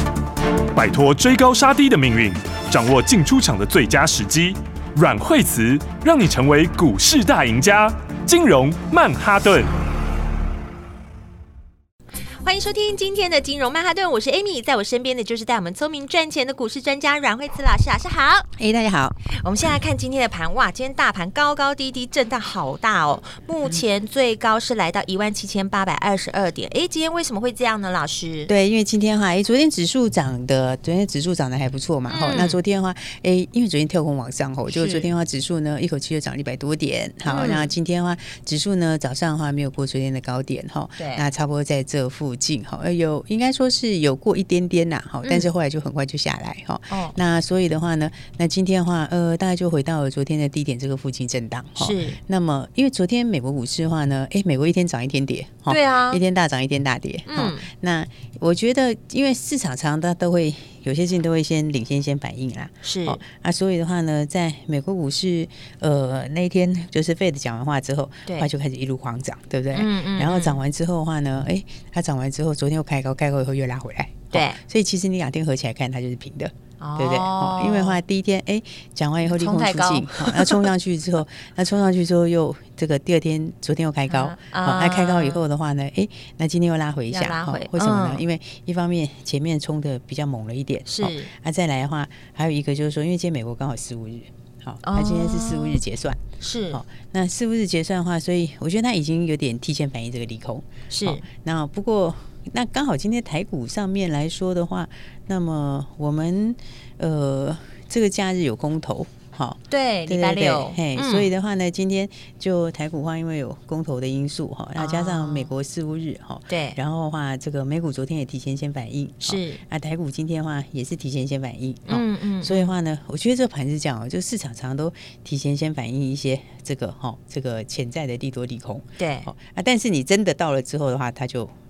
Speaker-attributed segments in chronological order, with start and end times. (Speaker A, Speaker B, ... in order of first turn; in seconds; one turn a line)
Speaker A: 0.7-9.7
Speaker B: 12.4-18.5
Speaker C: 18.6-19.1
Speaker B: 19.3-28.5
Speaker C: 28.5-131.5
Speaker B: 32.1-32.6
Speaker B: 34.7-35.1
Speaker B: 37.2-37.7
Speaker B: 41.0-41.2
Speaker B: 45.2-45.5
Speaker B: 46.9-47.2
Speaker B: 51.8-52.2
Speaker B: 55.7-56.2
Speaker B: 57.3-57.7
Speaker B: 62.8-63.2
Speaker B: 69.7-70.6
Speaker B: 74.3-74.6
Speaker B: 76.8-78.0
Speaker B: 79.2-80.7
Speaker B: 84.1-85.4
Speaker B: 87.1-88.2
Speaker B: 90.9-91.3
Speaker B: 94.8-95.8
Speaker B: 96.4-96.8
Speaker B: 100.9-101.2
Speaker B: 109.7-111.3
Speaker B: 114.8-115.5
Speaker B: 116.5-116.8
Speaker B: 119.2-119.6
Speaker B: 121.9-122.7
Speaker B: 129.0-129.3